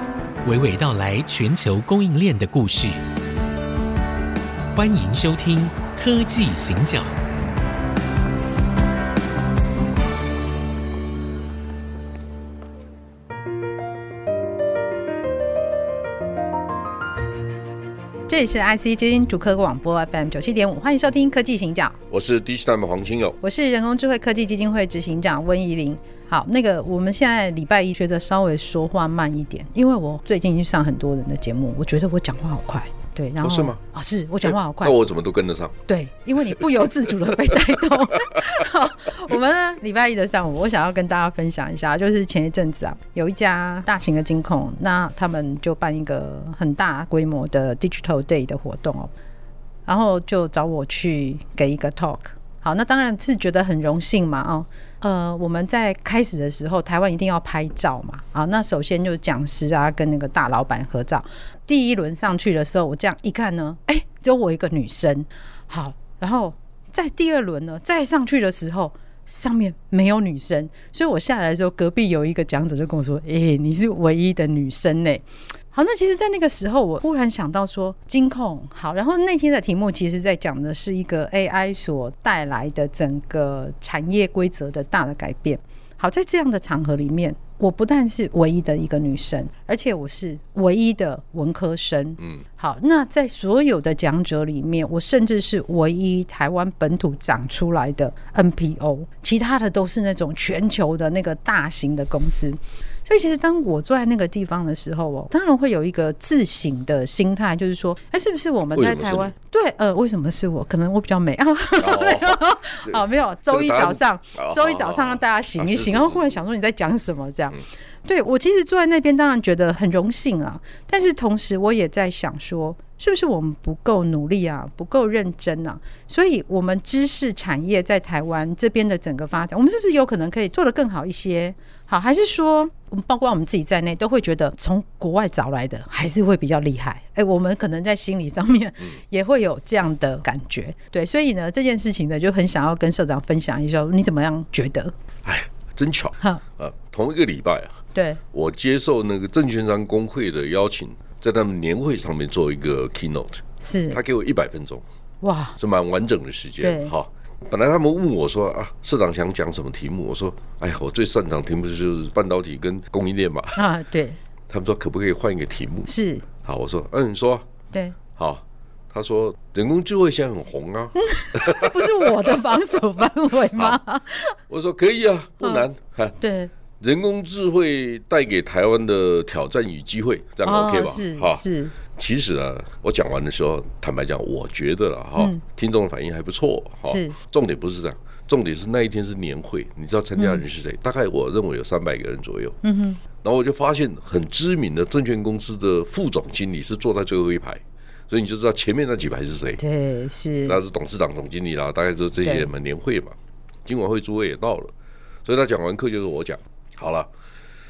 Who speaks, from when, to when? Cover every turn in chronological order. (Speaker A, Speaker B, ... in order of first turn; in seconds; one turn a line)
Speaker A: 0.4-3.0
Speaker A: 4.7-7.1
Speaker B: 18.3-22.0
Speaker C: 22.1-23.4
Speaker B: 23.4-35.0
Speaker C: 33.4-33.8
Speaker C: 34.4-35.8
Speaker B: 35.9-49.1
Speaker C: 36.5-37.8
Speaker C: 38.3-38.6
Speaker B: 49.9-144.9
Speaker C: 108.7-109.3
Speaker C: 111.8-116.3
Speaker C: 145.2-154.8
Speaker B: 147.9-148.2
Speaker B: 153.6-154.0
Speaker B: 155.2-155.6
Speaker C: 155.6-163.6
Speaker B: 156.6-156.9
Speaker B: 163.5-164.2
Speaker C: 164.5-165.9
Speaker B: 165.9-166.2
Speaker C: 166.4-167.5
Speaker B: 167.7-168.0
Speaker C: 168.1-172.6
Speaker B: 171.0-174.4
Speaker C: 173.5-173.8
Speaker C: 174.5-176.2
Speaker B: 175.4-175.7
Speaker B: 176.2-176.5
Speaker C: 176.8-192.6
Speaker B: 180.4-181.7
Speaker B: 186.9-187.2
Speaker B: 190.2-190.4
Speaker B: 192.6-193.0
Speaker C: 193.2-199.6
Speaker B: 199.6-200.6
Speaker C: 200.5-204.7
Speaker B: 202.2-202.5
Speaker C: 205.2-207.1